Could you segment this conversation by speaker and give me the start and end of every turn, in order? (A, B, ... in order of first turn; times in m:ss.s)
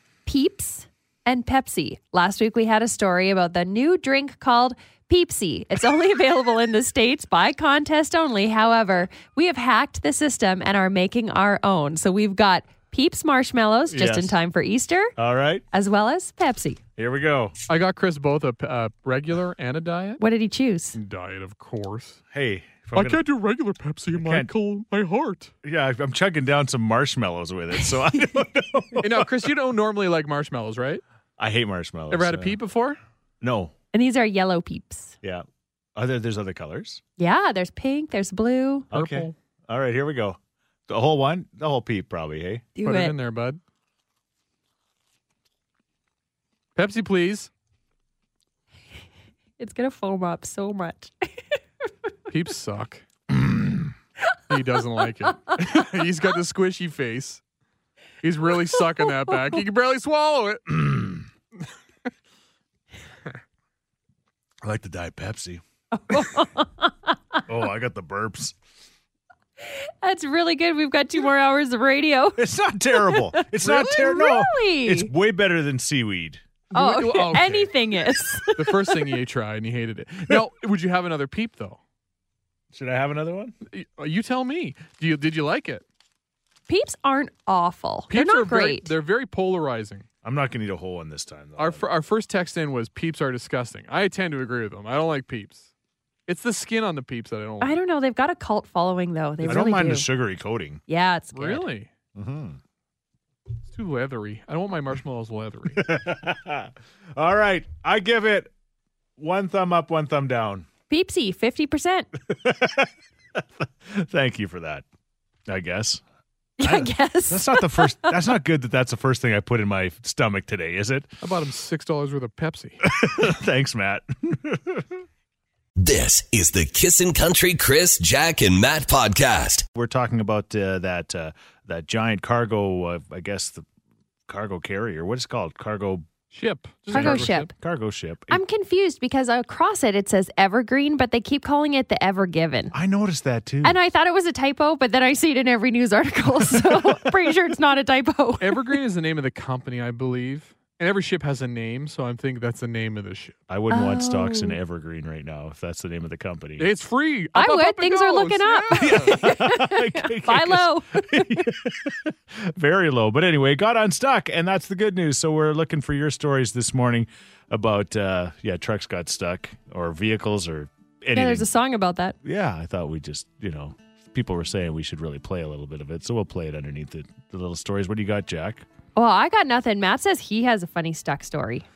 0:00.2-0:15.1 A
0:13.9-0:14.3 B
0:15.2-0:15.6 B
0:15.7-0:16.8 A
0:17.0-0:17.5 B
0:17.7-0:20.2 C
0:20.2-0:21.0 A
0:20.9-0:22.2 C
0:22.3-0:23.2 B
0:22.9-0:25.5 C
0:24.1-0:24.5 B
0:25.6-0:29.5 B
0:29.0-0:31.0 C
0:31.4-0:32.6 B
0:32.1-0:33.0 C
0:33.4-0:33.7 B
0:33.9-0:35.1 A
0:35.2-0:37.0 B
0:37.2-0:38.9 A
0:38.9-0:42.7 B
0:38.9-0:39.3 C
0:42.8-0:43.1 A
0:42.8-0:43.6 C
0:46.8-0:47.5 C
0:49.6-0:51.6 A
0:52.3-0:53.0 C
0:54.5-0:57.4 C
0:58.2-1:01.2 C
1:04.6-1:05.6 B
1:05.9-1:07.4 A
1:07.5-1:08.6 B
1:09.7-1:12.4 A
1:12.4-1:16.4 B
1:12.9-1:15.1 A
1:16.7-1:17.7 C
1:16.7-1:19.0 A
1:18.5-1:21.8 C
1:22.7-1:23.5 B
1:23.7-1:25.8 C
1:26.7-1:28.9 A
1:28.1-1:30.0 C
1:30.2-1:31.9 B
1:31.6-1:35.7 C
1:36.3-1:37.7 C
1:37.6-1:40.1 A
1:39.4-1:40.8 B
1:40.9-1:41.6 A
1:41.3-1:41.9 C
1:42.2-1:42.6 B
1:43.7-1:45.8 C
1:45.8-1:48.5 B
1:49.2-1:50.7 B
1:50.9-1:52.1 A
1:52.2-1:54.8 B
1:55.5-1:56.0 B
1:56.6-1:58.2 A
1:56.6-2:01.1 B
2:01.2-2:02.8 C
2:02.8-2:04.9 B
2:05.8-2:09.6 D
2:09.7-2:13.6 B
2:14.3-2:16.1 B
2:16.3-2:17.5 C
2:16.9-2:17.5 A
2:16.9-2:18.4 B
2:18.3-2:22.7 A
2:22.7-2:23.8 B
2:23.6-2:28.7 A
2:28.4-2:33.4 C
2:33.5-2:36.7 B
2:33.7-2:34.6 A
2:36.6-2:39.2 C
2:37.3-2:41.4 A
2:38.8-2:51.5 B
2:51.1-2:52.2 A
2:52.2-2:58.6 B
2:58.9-3:01.6 A